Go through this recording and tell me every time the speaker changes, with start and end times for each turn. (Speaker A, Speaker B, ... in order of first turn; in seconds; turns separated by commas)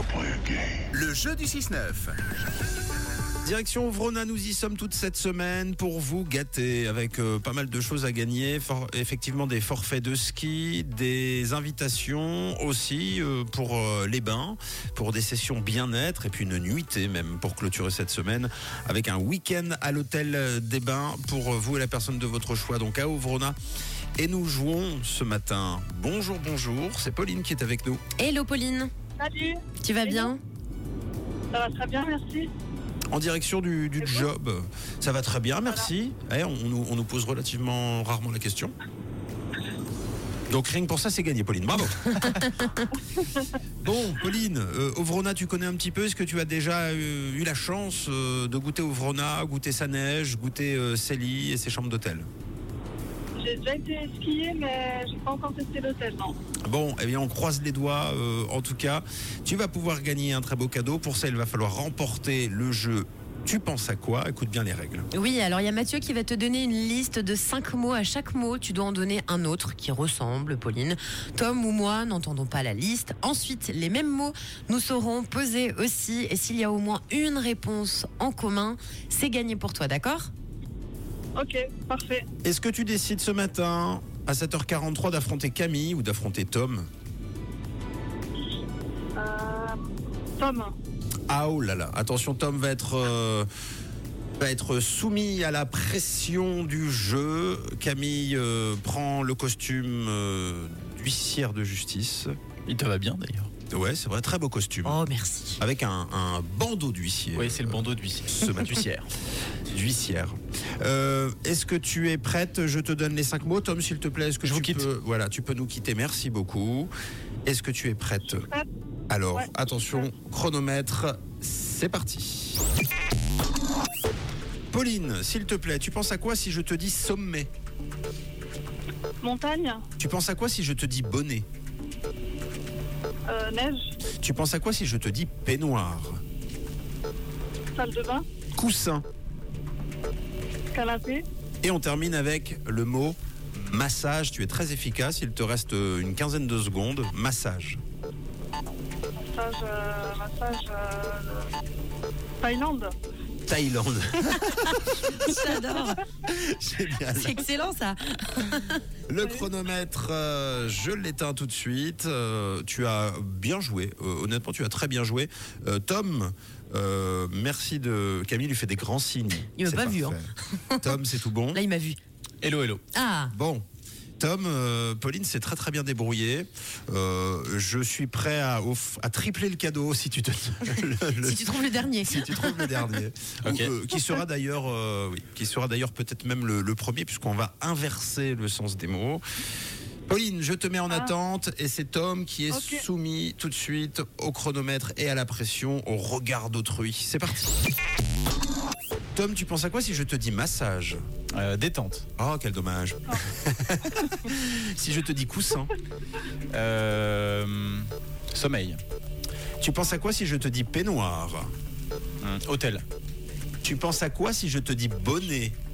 Speaker A: 0.9-2.2, Speaker A: 3.4-23.6, Speaker A: 24.2-28.0, Speaker B: 28.2-28.9, Speaker C: 29.2-30.3, Speaker B: 29.8-30.4, Speaker C: 31.5-32.5, Speaker A: 33.1-38.7, Speaker C: 34.0-34.3, Speaker A: 40.5-42.5, Speaker C: 43.2-43.5, Speaker A: 43.8-52.3, Speaker C: 53.4-56.4, Speaker A: 56.6-65.1, Speaker B: 65.1-80.3, Speaker C: 81.4-82.3, Speaker A: 82.4-86.9, Speaker C: 89.2-89.8, Speaker C: 90.4-90.7, Speaker A: 91.3-93.5, Speaker A: 94.4-102.3, Speaker D: 102.7-103.5, Speaker A: 103.7-105.0, Speaker B: 104.8-105.6, Speaker A: 105.6-108.8, Speaker D: 107.3-109.1, Speaker A: 109.7-116.9, Speaker D: 114.4-114.9, Speaker A: 117.5-118.5, Speaker C: 118.3-118.7, Speaker A: 119.1-122.6, Speaker C: 119.3-120.0, Speaker A: 124.7-127.5, Speaker C: 129.2-129.8, Speaker A: 130.0-131.4, Speaker C: 133.3-133.9, Speaker A: 134.2-136.2, Speaker C: 137.7-138.2, Speaker A: 138.5-139.0, Speaker C: 140.7-141.2, Speaker A: 141.6-147.8, Speaker C: 149.2-151.5, Speaker C: 152.4-152.9, Speaker A: 153.5-155.6, Speaker B: 154.3-156.0, Speaker A: 156.2-157.4, Speaker B: 157.1-158.8, Speaker A: 159.1-171.6, Speaker C: 159.2-159.5, Speaker B: 169.6-171.0, Speaker B: 171.5-172.0, Speaker D: 172.4-172.8, Speaker B: 172.9-173.3, Speaker A: 173.3-173.6, Speaker A: 174.2-189.2, Speaker B: 181.2-182.9, Speaker D: 183.4-183.7, Speaker A: 190.1-197.7, Speaker C: 190.9-191.1, Speaker C: 192.5-192.8, Speaker A: 199.1-201.0, Speaker D: 201.3-202.0, Speaker A: 202.2-205.7, Speaker D: 206.5-208.8, Speaker A: 209.6-211.5, Speaker D: 212.2-212.8, Speaker A: 213.6-215.6